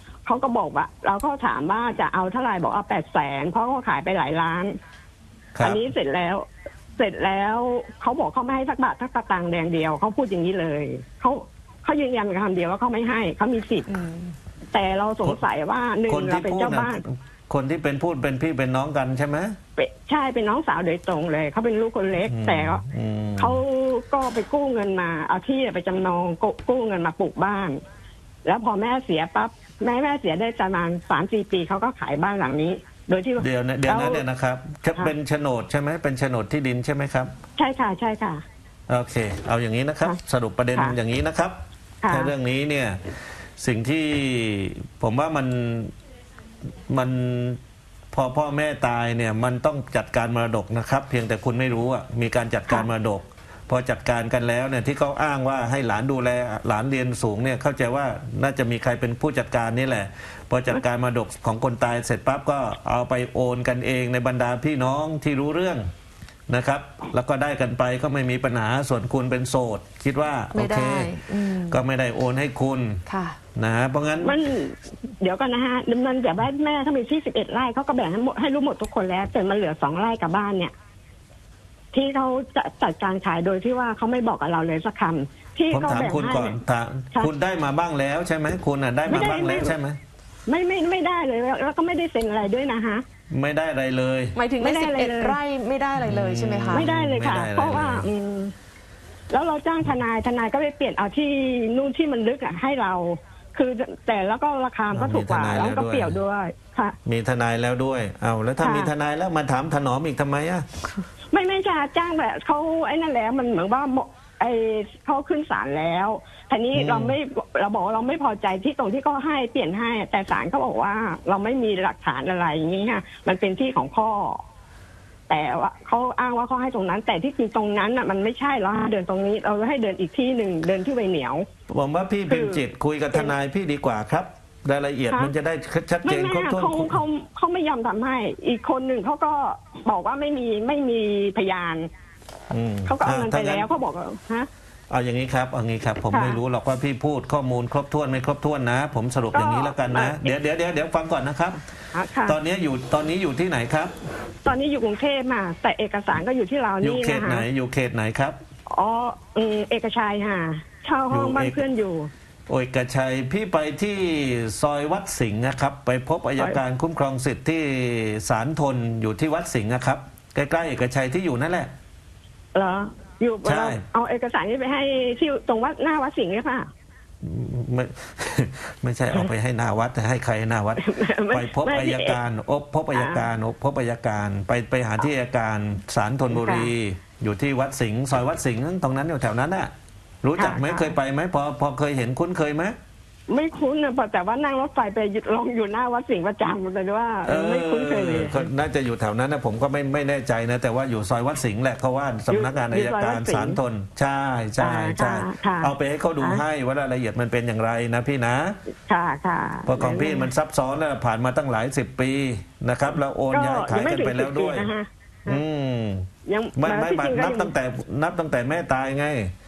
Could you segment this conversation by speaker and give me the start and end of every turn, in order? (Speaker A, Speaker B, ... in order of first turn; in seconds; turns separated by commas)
Speaker A: 0.2-4.7, Speaker B: 5.5-5.8, Speaker A: 5.6-6.5, Speaker A: 7.0-13.9, Speaker C: 13.9-14.3, Speaker A: 14.7-17.0, Speaker B: 16.1-19.6, Speaker A: 19.8-22.8, Speaker B: 22.3-23.6, Speaker A: 23.4-27.8, Speaker A: 28.4-34.2, Speaker B: 33.4-37.3, Speaker A: 37.6-38.4, Speaker B: 38.9-43.0, Speaker A: 42.0-42.3, Speaker B: 43.6-45.9, Speaker B: 46.9-47.6, Speaker B: 48.1-65.8, Speaker B: 66.5-71.1, Speaker C: 70.5-71.8, Speaker B: 71.7-73.0, Speaker C: 73.1-73.4, Speaker B: 73.5-74.4, Speaker A: 74.2-80.7, Speaker A: 81.9-86.6, Speaker B: 85.7-90.0, Speaker A: 89.1-89.8, Speaker A: 90.5-93.0, Speaker B: 93.3-94.3, Speaker C: 94.3-96.9, Speaker A: 94.6-95.4, Speaker B: 96.0-98.1, Speaker A: 96.7-98.5, Speaker A: 99.3-107.0, Speaker B: 104.9-106.2, Speaker B: 107.0-110.7, Speaker A: 108.6-108.9, Speaker A: 111.3-124.4, Speaker B: 116.7-117.2, Speaker A: 125.3-131.4, Speaker B: 131.7-137.0, Speaker A: 132.3-133.3, Speaker A: 136.0-141.9, Speaker B: 142.5-143.7, Speaker A: 142.8-144.5, Speaker B: 144.9-151.6, Speaker A: 146.1-146.4, Speaker A: 149.3-150.3, Speaker A: 151.9-152.4, Speaker B: 152.2-153.9, Speaker A: 154.4-157.4, Speaker B: 156.8-158.4, Speaker A: 158.7-162.1, Speaker B: 161.1-161.6, Speaker B: 162.5-171.7, Speaker A: 172.5-176.7, Speaker B: 173.4-173.8, Speaker B: 177.2-189.7, Speaker A: 180.8-182.2, Speaker A: 182.9-183.2, Speaker A: 186.3-186.7, Speaker B: 190.2-192.8, Speaker A: 190.4-190.9, Speaker A: 193.3-198.5, Speaker B: 197.2-208.6, Speaker A: 202.3-203.6, Speaker A: 204.6-206.4, Speaker A: 208.8-210.3, Speaker B: 209.7-214.7, Speaker A: 213.3-215.4, Speaker B: 215.3-219.3, Speaker A: 216.2-217.5